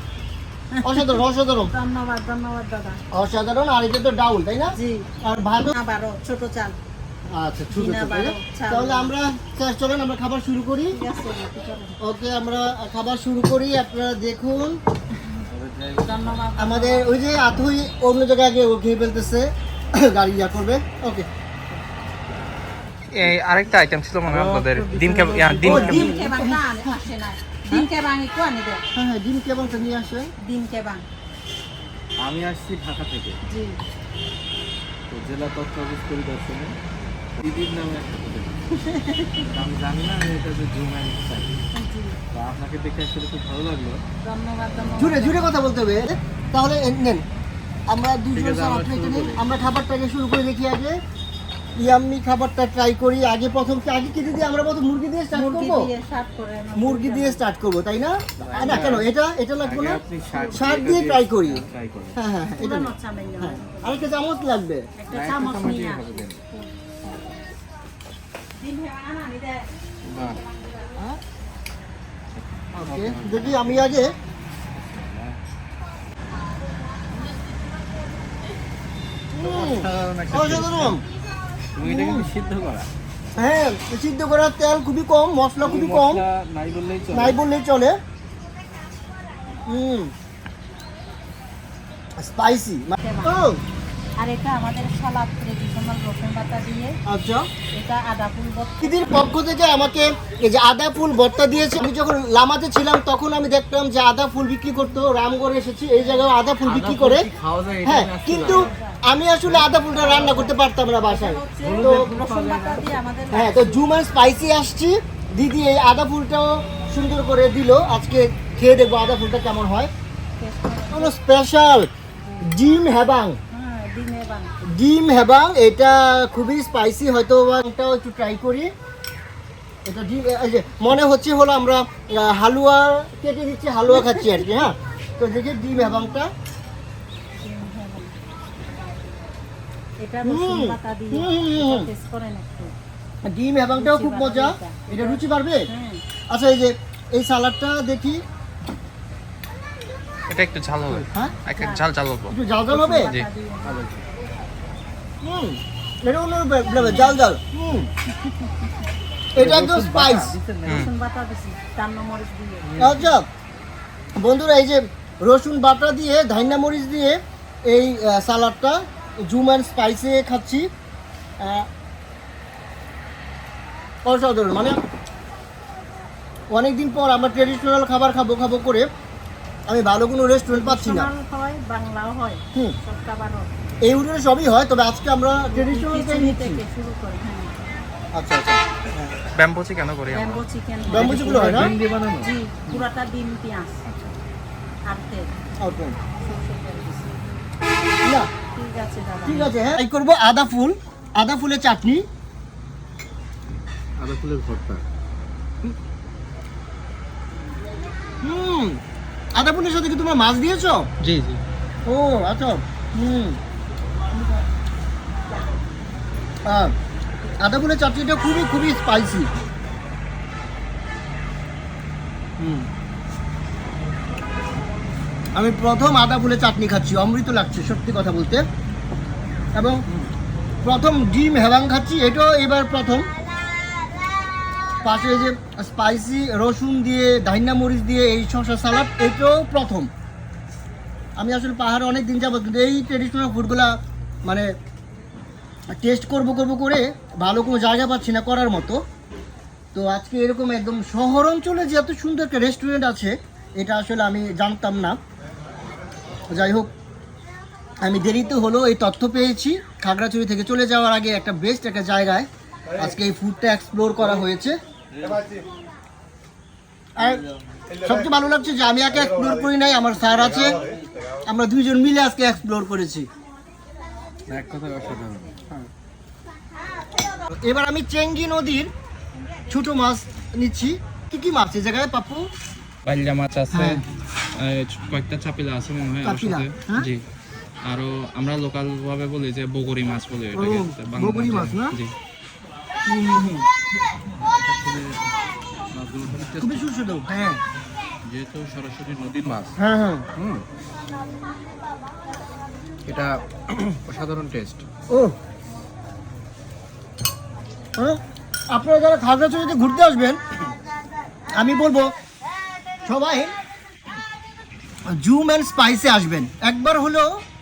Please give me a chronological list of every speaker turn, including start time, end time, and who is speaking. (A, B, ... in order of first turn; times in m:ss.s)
0:00.7-0:03.0 A
0:00.8-0:01.7 B
0:03.1-0:05.7 B
0:04.7-0:05.1 A
0:05.6-0:06.8 A
0:07.3-0:11.0 B
0:07.7-0:09.1 A
0:10.9-0:12.0 A
0:12.0-0:14.8 B
0:15.5-0:16.4 C
0:16.0-0:17.1 A
0:16.6-0:21.3 B
0:23.1-0:26.1 D
0:24.2-0:25.8 C
0:25.6-0:27.0 B
0:25.6-0:28.8 A
0:28.9-0:30.3 B
0:30.4-0:31.0 A
0:32.2-0:33.4 C
0:33.4-0:33.8 A
0:35.1-0:36.7 C
0:37.4-0:38.6 C
0:38.8-0:39.4 A
0:39.5-0:41.6 C
0:41.7-0:42.2 A
0:42.3-0:44.0 C
0:44.2-0:45.5 A
0:45.0-0:47.2 B
0:47.9-0:51.0 B
0:48.3-0:49.4 C
0:51.8-0:55.9 B
0:55.3-0:57.4 A
0:56.8-1:01.6 B
0:58.4-0:59.1 C
0:58.6-0:58.9 A
0:59.6-1:02.2 C
1:02.2-1:04.9 B
1:02.6-1:04.0 A
1:05.0-1:06.8 A
1:05.1-1:06.4 C
1:08.5-1:09.7 A
1:10.0-1:10.4 C
1:12.4-1:13.9 C
1:12.7-1:14.1 B
1:14.7-1:15.4 C
1:19.3-1:21.0 B
1:19.5-1:21.0 C
1:21.8-1:22.9 C
1:21.8-1:22.3 B
1:23.3-1:26.2 B
1:25.6-1:27.4 C
1:27.1-1:28.0 B
1:29.7-1:30.1 B
1:32.2-1:33.6 B
1:33.0-1:33.4 A
1:34.2-1:37.0 A
1:37.1-1:37.5 B
1:37.7-1:39.3 A
1:38.8-1:47.3 B
1:46.6-1:48.7 C
1:47.8-1:52.0 B
1:48.4-1:49.0 A
1:49.9-1:50.5 A
1:51.1-1:53.8 A
1:51.6-1:53.0 C
1:53.3-1:59.9 B
2:00.4-2:01.2 A
2:00.9-2:01.9 B
2:02.2-2:02.5 A
2:02.4-2:03.4 B
2:03.5-2:04.5 A
2:04.7-2:08.7 B
2:09.8-2:16.3 B
2:13.9-2:14.5 A
2:17.4-2:18.1 A
2:20.0-2:22.7 A
2:20.2-2:21.9 B
2:23.2-2:25.6 B
2:23.7-2:26.0 A
2:26.3-2:28.2 B
2:30.3-2:32.4 D
2:31.5-2:31.8 A
2:32.3-2:33.1 B
2:32.7-2:33.8 A
2:33.6-2:34.0 C
2:35.2-2:37.9 B
2:39.3-2:40.3 B
2:39.4-2:40.8 C
2:40.6-2:40.9 D
2:40.6-2:42.7 A
2:42.6-2:43.1 C
2:42.8-2:43.2 B
2:44.2-2:50.7 B
2:51.4-2:51.7 B
2:54.0-2:54.8 B
2:56.5-2:58.9 B
2:59.7-3:01.1 B
3:00.5-3:03.5 A
3:03.8-3:06.6 B
3:05.4-3:07.5 A
3:08.1-3:09.1 B
3:09.3-3:10.4 D
3:10.1-3:13.8 A
3:10.9-3:11.7 B
3:10.9-3:12.8 C
3:14.9-3:15.3 A
3:15.6-3:16.0 B
3:16.2-3:17.2 A
3:18.0-3:18.3 B
3:18.5-3:19.8 A
3:19.2-3:22.0 B
3:24.0-3:24.8 C
3:28.2-3:28.8 B
3:29.3-3:30.9 B
3:31.0-3:31.4 D
3:31.8-3:33.4 B
3:36.4-3:36.7 B
3:37.4-3:39.3 B
3:42.4-3:42.7 C
3:45.3-3:48.4 B
3:49.5-3:49.8 B
3:50.6-3:53.1 B
3:54.8-3:59.9 B
4:01.2-4:04.5 B
4:05.7-4:08.8 B
4:09.7-4:15.0 B
4:16.3-4:16.7 B
4:17.8-4:24.6 B
4:27.0-4:27.2 B
4:27.8-4:30.6 B
4:31.2-4:33.1 B
4:34.3-4:35.4 C
4:37.3-4:38.7 B
4:39.5-4:42.3 B
4:42.8-4:43.8 D
4:43.5-4:43.8 B
4:44.3-4:47.0 D
4:46.0-4:46.9 B
4:47.6-4:51.9 D
4:50.3-4:51.8 B
4:52.9-4:53.4 B
4:54.3-4:55.1 C
4:55.7-4:56.7 C
4:56.4-4:57.4 B
4:58.0-4:59.5 C
4:59.6-5:00.1 B
5:00.2-5:00.4 C
5:02.8-5:04.6 C
5:04.9-5:05.1 B
5:08.5-5:10.5 B
5:11.3-5:11.9 B
5:12.8-5:13.3 B
5:14.9-5:17.1 B